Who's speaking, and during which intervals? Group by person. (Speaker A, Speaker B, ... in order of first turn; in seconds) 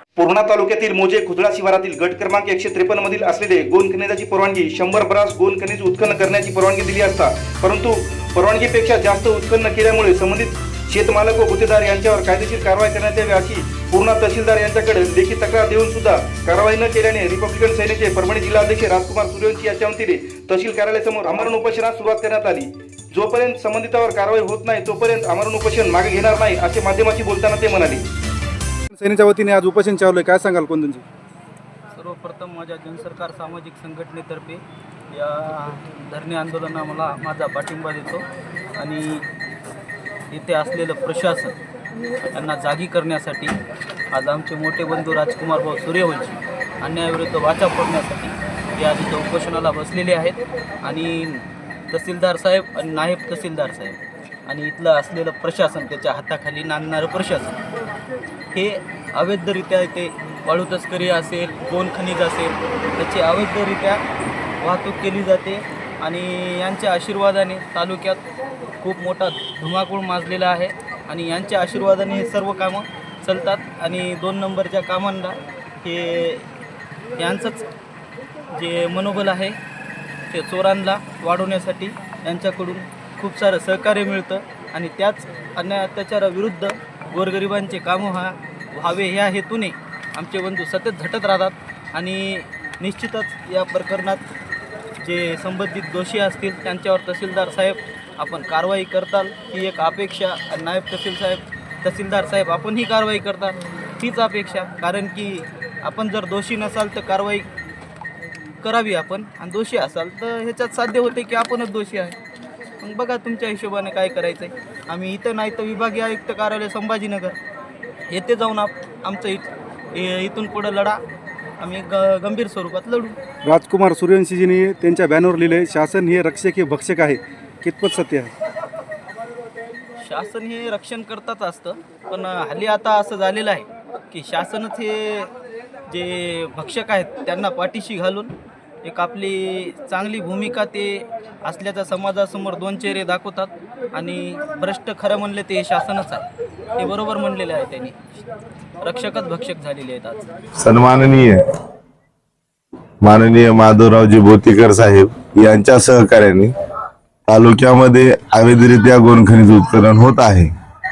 Speaker A: 0.2-28.0, 123.5-123.9, 124.7-128.3
Speaker B: 28.9-31.1, 123.6-126.7
Speaker C: 31.9-38.3, 38.8-39.2, 40.3-41.6, 42.3-43.5, 44.1-57.6, 58.5-64.0, 64.6-68.2, 68.8-76.5, 77.2-77.7, 78.5-79.6, 80.3-94.2, 95.0-107.5, 108.6-112.2, 112.8-117.4, 118.1-121.0, 121.6-123.2, 130.0-135.3, 135.9-138.3, 138.8-146.2, 146.8-148.0, 148.8-150.2
Speaker D: 150.6-151.4, 153.0-156.5, 157.3-160.5